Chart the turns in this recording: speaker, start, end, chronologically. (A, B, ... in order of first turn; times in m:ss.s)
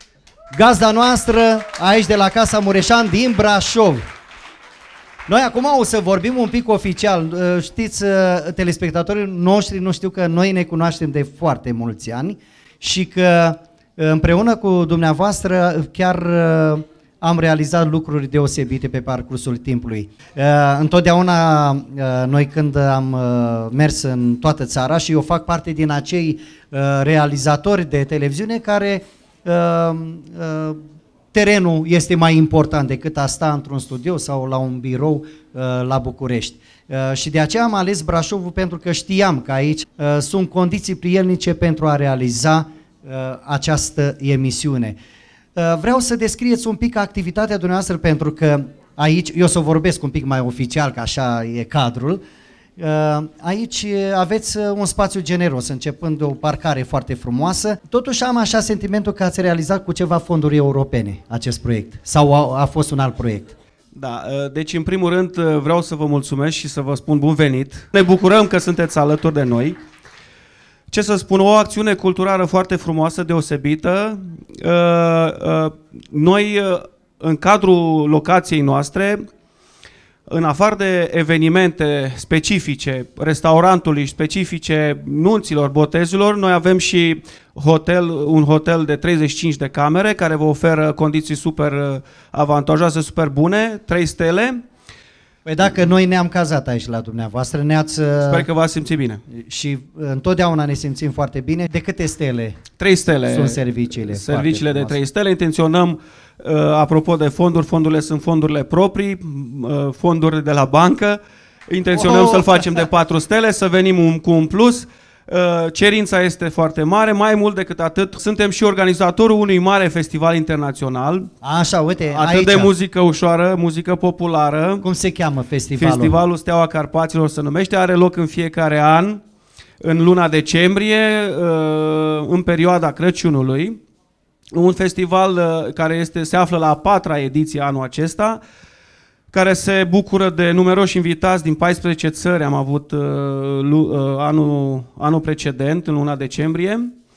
0:00.5-0:04.0 A
0:05.3-0:30.8 A
0:31.3-0:45.0 A
0:45.6-0:52.2 A
0:52.8-1:03.6 A
1:03.9-1:09.8 B
1:10.9-1:19.2 B
1:20.3-1:34.6 B
1:35.4-1:38.4 A
1:38.3-1:39.2 B
1:39.3-1:42.6 A
1:42.8-2:01.3 B
1:43.3-1:45.0 A
1:52.0-1:52.8 A
2:01.4-2:02.7 A
2:02.1-2:04.8 B
2:04.8-2:06.2 A
2:05.8-2:09.2 B
2:09.8-2:13.8 B
2:14.5-2:18.4 B
2:19.3-2:26.9 B